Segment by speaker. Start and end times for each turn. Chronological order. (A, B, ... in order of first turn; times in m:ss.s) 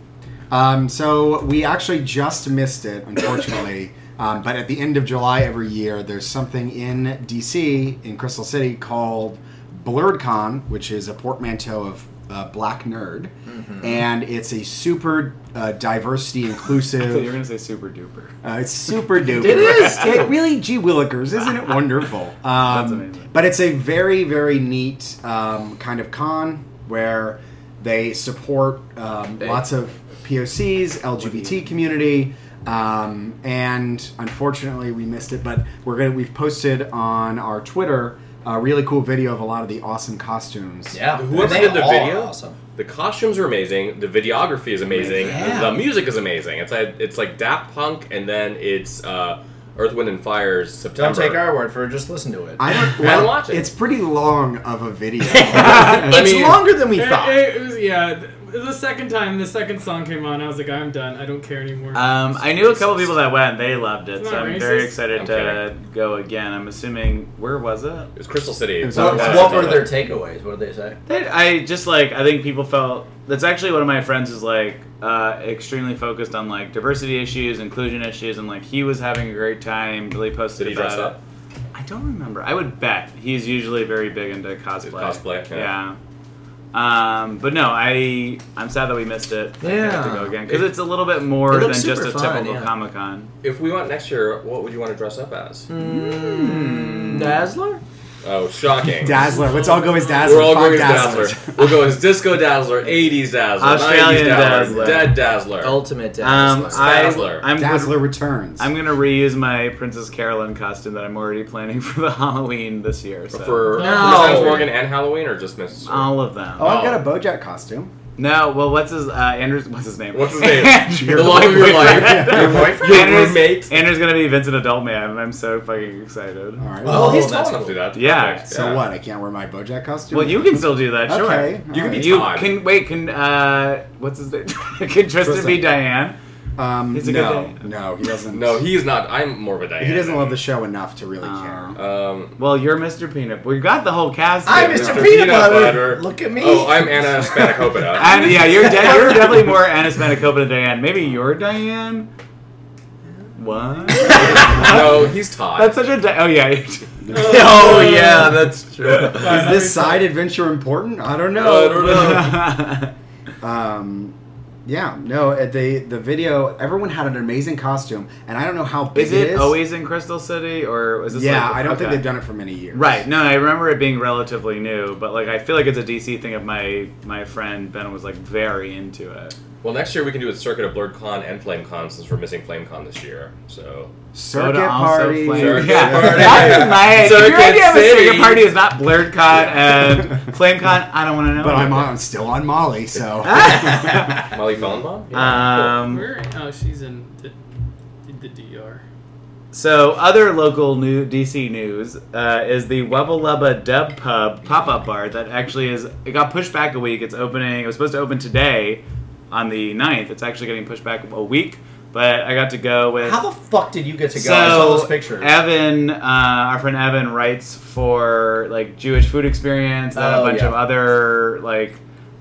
0:00.5-0:17.3 A
0:13.5-0:13.9 B
0:16.9-0:18.3 C
0:18.4-0:41.8 A
0:19.2-0:20.2 C
0:19.2-0:20.3 B
0:22.6-0:23.3 C
0:40.9-0:42.6 B
0:41.2-0:51.5 D
0:45.1-0:45.8 B
0:50.9-0:52.6 B
0:52.6-0:56.3 A
0:52.8-0:53.7 D
0:55.2-0:57.4 B
0:55.5-0:56.6 D
0:55.6-0:56.0 C
0:56.9-1:02.3 E
1:01.9-1:08.1 C
1:04.1-1:05.0 E
1:05.1-1:05.7 D
1:08.2-1:09.9 D
1:08.8-1:09.9 A
1:08.9-1:11.0 B
1:11.0-1:21.2 C
1:20.6-1:21.2 D
1:21.7-1:26.0 C
1:24.8-1:25.7 D
1:26.7-1:33.3 C
1:29.6-1:30.7 B
1:31.4-1:32.7 B
1:33.4-1:35.7 D
1:35.7-1:37.8 B
1:35.8-1:37.4 C
1:38.2-1:39.2 D
1:38.9-1:41.8 A
1:39.3-1:40.2 E
1:40.2-1:45.8 D
1:43.6-1:45.2 C
1:44.5-1:45.0 A
1:45.6-1:47.2 B
1:46.2-1:48.0 C
1:46.7-1:47.4 D
1:47.5-1:48.7 A
1:48.6-1:53.8 C
1:53.3-1:57.0 D
1:53.6-1:54.6 E
1:53.7-1:54.7 B
1:55.8-1:56.8 C
1:56.6-1:57.9 A
1:58.2-2:06.7 C
2:00.1-2:03.9 D
2:00.8-2:02.8 A
2:02.3-2:03.2 B
2:06.6-2:07.3 A
2:06.8-2:07.8 B
2:06.8-2:08.8 D
2:07.9-2:08.5 C
2:08.5-2:12.4 A
2:10.1-2:16.2 C
2:11.7-2:12.6 D
2:15.2-2:15.7 A
2:16.6-2:18.7 A
2:16.9-2:17.6 C
2:18.3-2:20.4 D
2:19.8-2:21.8 A
2:21.2-2:21.8 C
2:21.8-2:22.4 D
2:22.4-2:25.2 C
2:24.4-2:27.2 B
2:24.5-2:28.5 D
2:27.9-2:32.1 C
2:28.2-2:29.5 B
2:33.4-2:37.4 C
2:34.2-2:35.8 D
2:34.6-2:34.9 A
2:37.1-2:37.4 A
2:37.1-2:38.5 E
2:37.2-2:39.5 B
2:39.0-2:40.1 E
2:39.2-2:42.4 A
2:41.3-2:42.4 D
2:41.7-2:42.9 C
2:43.4-2:44.1 A
2:44.6-2:49.6 A
2:48.9-2:52.0 C
2:51.1-2:53.0 A
2:52.7-2:59.3 C
2:59.6-3:03.9 D
3:04.1-3:06.7 A
3:04.3-3:11.9 C
3:05.3-3:08.5 D
3:09.3-3:10.3 A
3:11.3-3:14.2 A
3:13.2-3:14.3 C
3:14.1-3:15.7 D
3:15.1-3:16.1 C
3:15.8-3:17.3 E
3:18.0-3:18.8 E
3:19.5-3:33.2 C
3:33.0-3:35.3 B
3:34.1-3:41.8 C
3:39.9-3:40.6 B